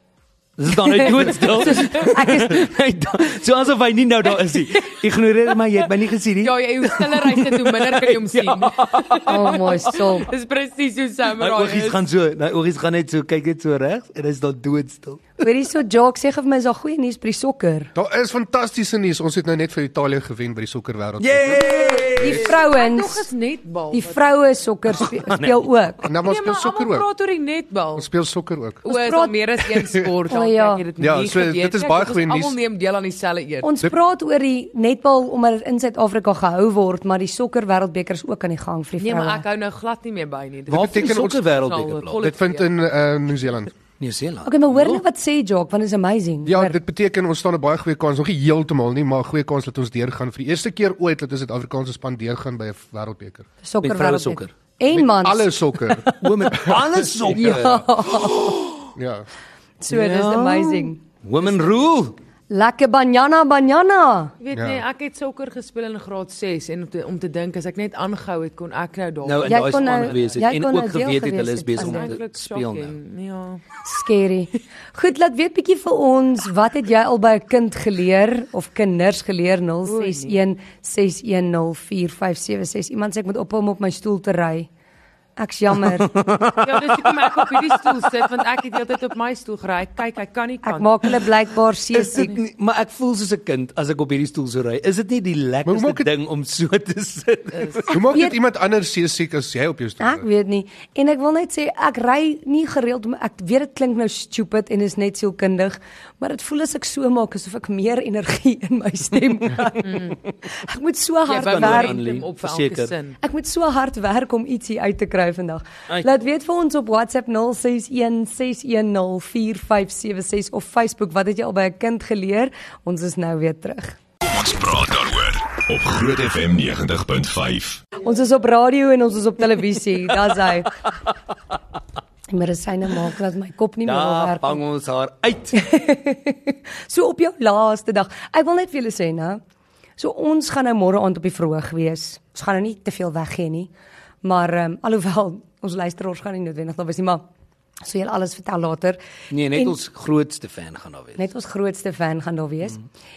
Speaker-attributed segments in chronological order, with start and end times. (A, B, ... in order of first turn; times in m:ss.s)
0:00.6-0:10.1 A
0:00.9-0:02.7 B
0:01.1-0:02.2 C
0:06.4-0:12.0 C
0:09.2-0:10.3 B
0:11.4-0:15.4 A
0:15.4-0:17.9 B
0:17.9-0:22.4 D
0:21.2-0:22.5 A
0:22.2-0:23.3 B
0:22.4-0:24.3 C
0:23.9-0:26.1 B
0:24.9-0:25.7 A
0:26.0-0:27.0 D
0:26.2-0:28.1 C
0:28.0-0:28.8 D
0:28.8-0:33.7 C
0:28.8-0:29.4 B
0:30.3-0:30.8 B
0:31.0-0:32.5 D
0:33.6-0:39.4 B
0:39.0-0:42.7 C
0:40.7-0:42.3 A
0:40.7-0:41.4 D
0:42.2-0:43.7 D
0:44.0-0:45.0 A
0:44.4-0:46.8 B
0:46.4-0:53.4 D
0:53.6-0:56.2 B
0:53.8-0:54.5 A
0:54.9-0:57.8 D
0:56.2-0:58.8 A
0:57.4-0:58.6 B
0:58.9-0:59.2 D
0:59.8-1:01.0 B
0:59.9-1:02.2 A
1:02.5-1:04.3 B
1:04.4-1:10.2 C
1:04.5-1:04.8 D
1:09.2-1:12.9 A
1:09.4-1:12.1 B
1:11.8-1:13.6 C
1:13.8-1:24.7 B
1:19.8-1:20.4 C
1:25.4-1:26.1 B
1:25.8-1:28.0 A
1:26.6-1:31.1 C
1:30.6-1:32.4 B
1:31.9-1:38.1 A
1:35.6-1:36.1 D
1:37.9-1:40.2 D
1:37.9-1:38.4 B
1:40.0-1:52.0 B
1:49.8-1:50.2 C
1:51.3-1:53.2 C
1:51.3-1:52.9 A
1:53.2-2:04.0 B
2:04.2-2:07.8 E
2:08.0-2:10.7 B
2:12.3-2:14.6 B
2:13.8-2:15.6 A
2:15.5-2:19.4 B
2:20.0-2:23.7 B
2:24.2-2:27.2 B
2:27.8-2:29.0 B
2:29.3-2:31.3 A
2:31.2-2:32.8 B